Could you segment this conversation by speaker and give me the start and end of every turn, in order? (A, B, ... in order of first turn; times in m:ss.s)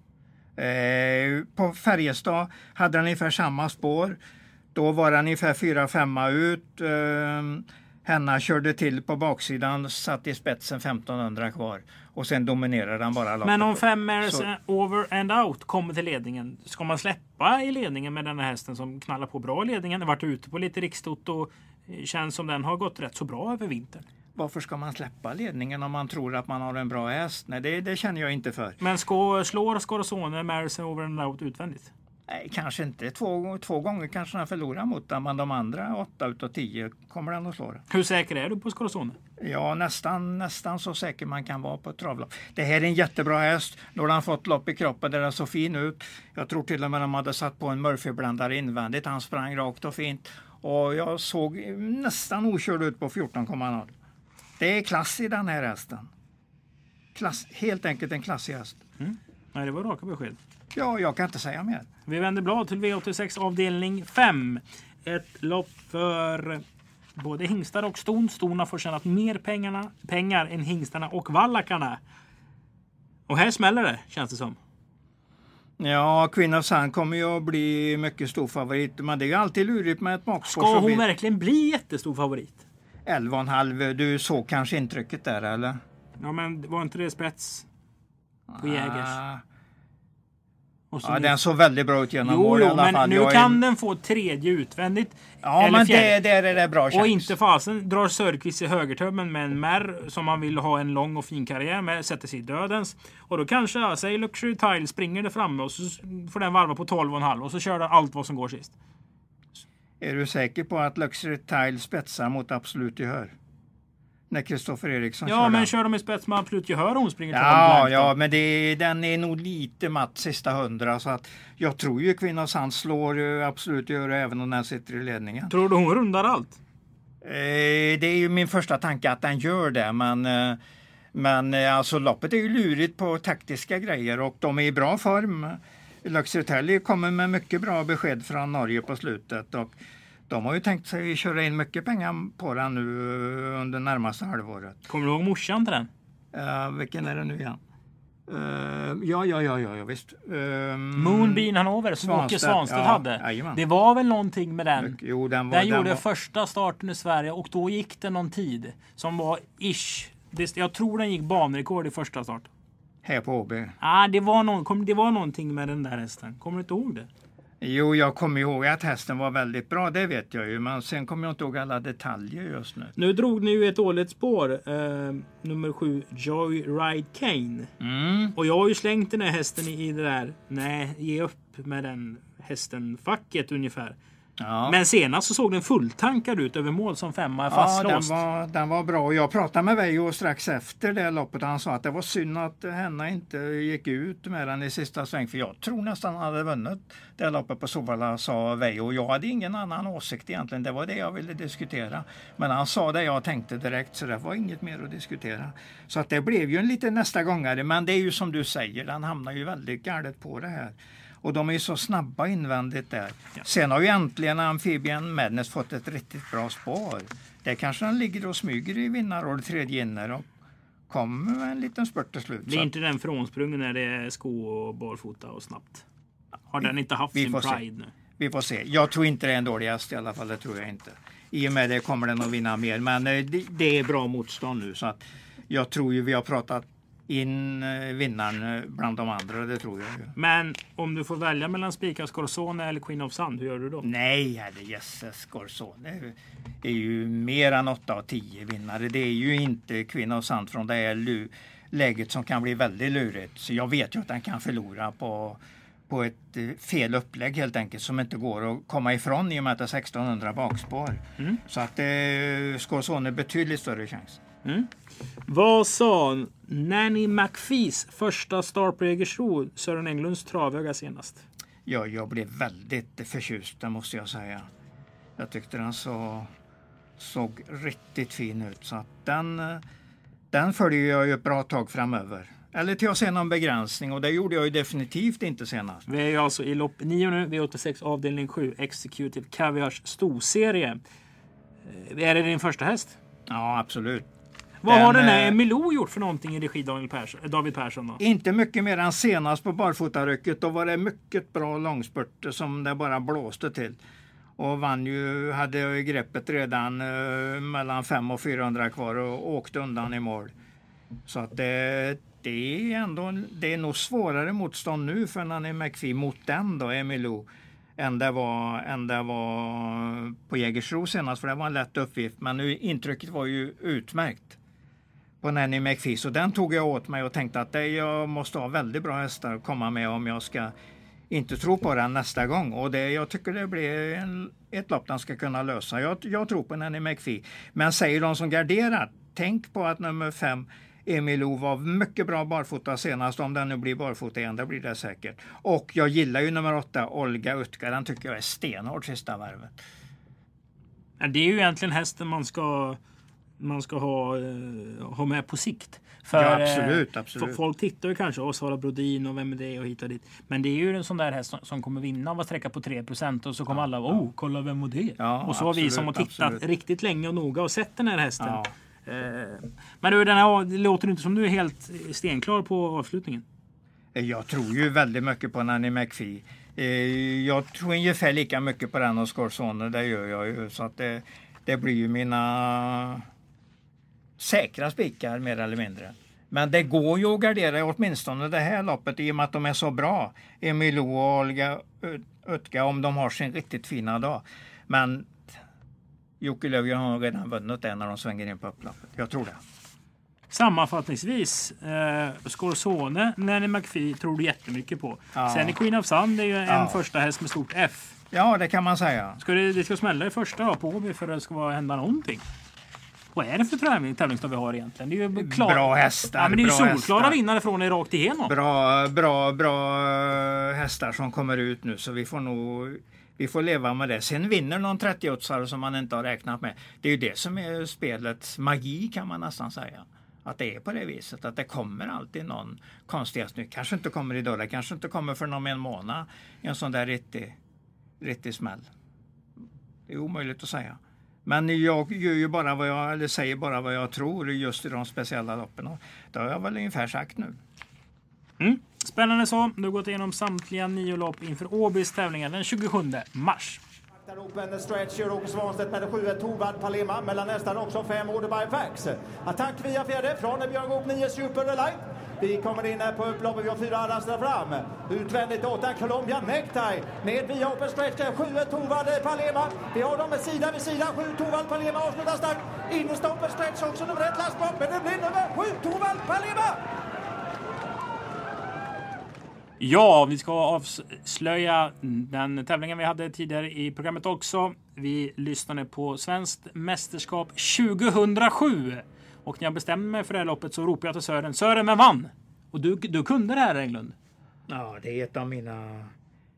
0:00.6-0:04.2 A
0:04.8-0:14.5 A
0:13.4-0:24.0 B
0:24.4-0:28.8 A
0:28.8-0:31.9 B
0:32.3-0:37.8 A
0:37.9-0:39.2 B
0:39.4-0:53.9 A
0:54.6-0:56.1 A
0:57.2-0:58.8 A
0:59.0-1:00.4 B
1:00.8-1:01.9 A
1:02.1-1:06.6 B
1:07.2-1:12.0 B
1:13.3-1:14.6 B
1:15.8-1:21.0 A
1:20.4-1:22.6 B
1:23.1-1:25.8 A
1:26.2-1:27.7 B
1:28.5-1:29.4 A
1:28.6-1:29.2 B
1:30.9-1:31.4 B
1:31.0-1:33.6 A
1:32.2-1:36.2 B
1:35.4-1:37.3 A
1:36.9-1:48.7 B
1:50.0-1:53.3 A
1:54.3-1:55.7 A
1:55.2-1:58.1 B
1:57.3-2:05.5 A
2:05.5-2:06.6 B
2:07.2-2:10.6 A
2:11.1-2:19.8 A
2:20.3-2:24.8 A
2:24.9-2:25.9 B
2:26.3-2:27.6 A
2:28.3-2:31.5 A
2:31.0-2:35.0 B
2:32.0-2:33.6 A
2:34.8-2:36.0 A
2:35.5-2:42.5 B
2:43.0-2:43.8 A
2:43.8-2:47.1 B
2:47.6-2:53.0 A
2:53.0-2:57.7 B
2:57.8-2:58.4 A
2:58.4-3:04.0 B
3:04.4-3:04.8 A
3:04.6-3:08.1 B
3:07.5-3:40.3 A
3:40.9-3:42.7 A
3:42.5-3:45.8 B
3:46.5-3:47.9 B
3:46.6-3:47.6 A
3:48.2-4:00.2 A
4:00.2-4:03.9 B
4:03.8-4:24.2 A
4:24.4-4:24.7 B
4:25.2-4:31.2 B
4:31.7-4:34.5 A
4:35.2-4:36.3 A
4:37.0-4:39.6 A
4:40.3-4:45.9 A
4:45.9-4:50.8 B
4:51.6-4:53.0 B
4:53.3-4:54.1 A
4:54.6-4:58.0 B
4:54.7-4:55.4 A
4:58.0-5:03.8 A
5:04.4-5:10.3 A
5:11.1-5:24.4 A
5:25.2-5:30.6 A
5:31.1-5:49.5 A
5:51.0-5:52.8 B
5:53.4-6:13.2 B
5:56.1-5:57.4 A
6:03.5-6:04.0 A
6:05.0-6:06.4 A
6:08.2-6:08.5 A
6:13.9-6:23.1 A
6:24.2-6:35.4 A
6:36.2-6:39.4 A
6:40.3-6:47.9 B
6:45.2-6:45.6 A
6:46.5-6:46.8 A
6:48.1-6:49.2 A
6:49.2-6:52.2 B
6:53.1-6:58.4 B
6:55.2-6:57.2 A
6:58.3-7:17.4 A
7:18.0-7:18.7 A
7:19.9-7:27.4 A
7:28.4-7:33.6 B
7:34.1-7:56.6 C
7:59.6-8:14.0 B
8:14.5-8:15.9 A